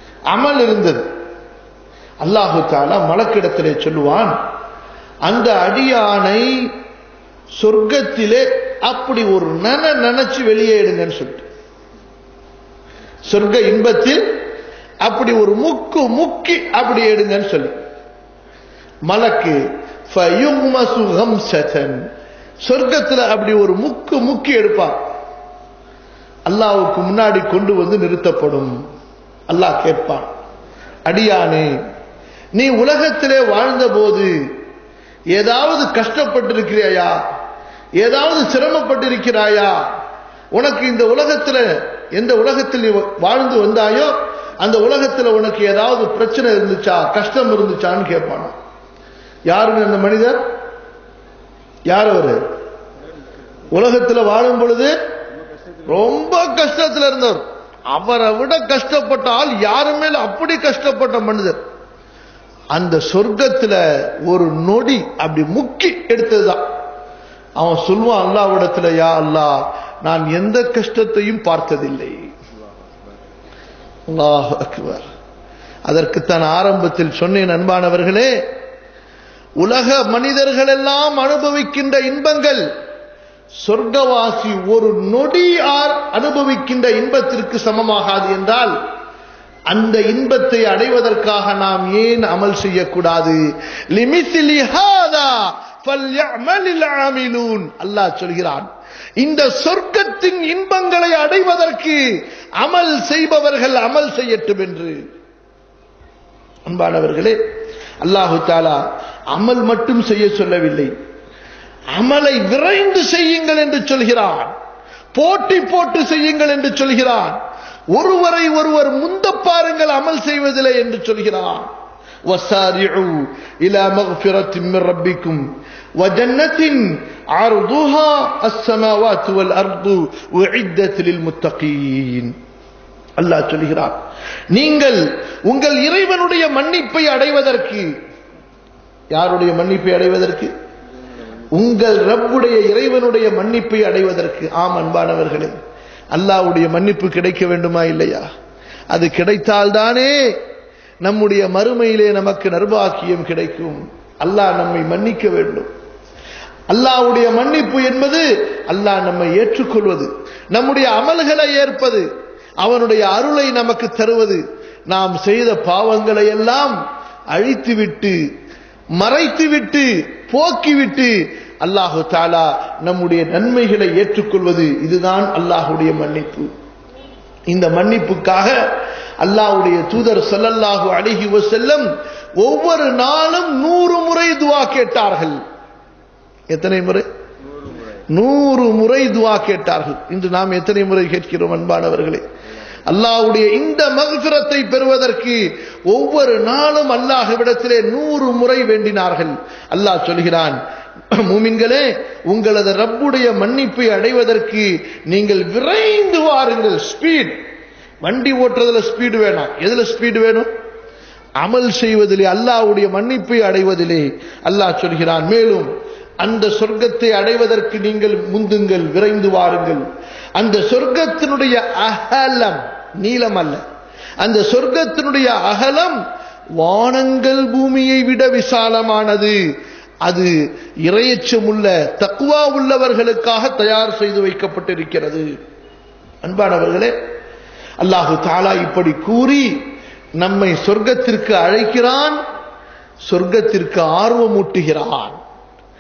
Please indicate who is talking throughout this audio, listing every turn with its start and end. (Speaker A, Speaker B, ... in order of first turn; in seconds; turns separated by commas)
Speaker A: 0.3-1.0, Speaker A: 2.2-4.3, Speaker A: 5.2-6.7, Speaker A: 7.6-11.4, Speaker A: 13.2-14.3, Speaker A: 15.0-17.8, Speaker A: 19.1-22.1, Speaker A: 22.6-25.0, Speaker A: 26.5-28.8, Speaker A: 29.5-30.3, Speaker A: 31.1-31.8, Speaker A: 32.6-34.3, Speaker A: 35.3-37.2, Speaker A: 38.0-39.8, Speaker A: 40.5-48.6, Speaker A: 49.5-50.4, Speaker A: 51.9-52.4, Speaker A: 53.7-55.0, Speaker A: 55.9-61.6, Speaker A: 62.7-66.6, Speaker A: 67.6-72.3, Speaker A: 74.1-75.1, Speaker A: 75.9-78.4, Speaker A: 79.6-82.6, Speaker A: 83.6-88.8, Speaker A: 89.7-93.4, Speaker A: 93.9-98.7, Speaker A: 99.2-105.0, Speaker A: 106.7-107.4, Speaker A: 108.0-110.9, Speaker A: 112.0-114.5, Speaker A: 115.1-117.4, Speaker A: 117.9-121.7, Speaker A: 122.3-125.4, Speaker A: 126.0-132.3, Speaker A: 133.2-134.0, Speaker A: 134.5-137.9, Speaker A: 139.1-140.5, Speaker A: 141.5-145.5, Speaker A: 146.1-148.3, Speaker A: 148.9-150.3, Speaker A: 151.0-155.7, Speaker A: 156.7-162.0, Speaker A: 162.6-166.8, Speaker A: 167.3-168.2, Speaker A: 169.0-176.5, Speaker A: 177.5-178.6, Speaker A: 179.2-181.9, Speaker A: 182.4-185.4, Speaker A: 186.5-187.1, Speaker A: 188.1-192.2, Speaker A: 192.9-200.6, Speaker A: 201.1-207.4, Speaker A: 208.0-210.5, Speaker A: 211.4-219.9, Speaker A: 220.4-223.6, Speaker A: 224.2-226.0, Speaker A: 226.6-229.4, Speaker A: 230.0-235.2, Speaker A: 236.2-236.9, Speaker A: 237.8-239.6, Speaker A: 240.2-242.2, Speaker A: 243.1-245.2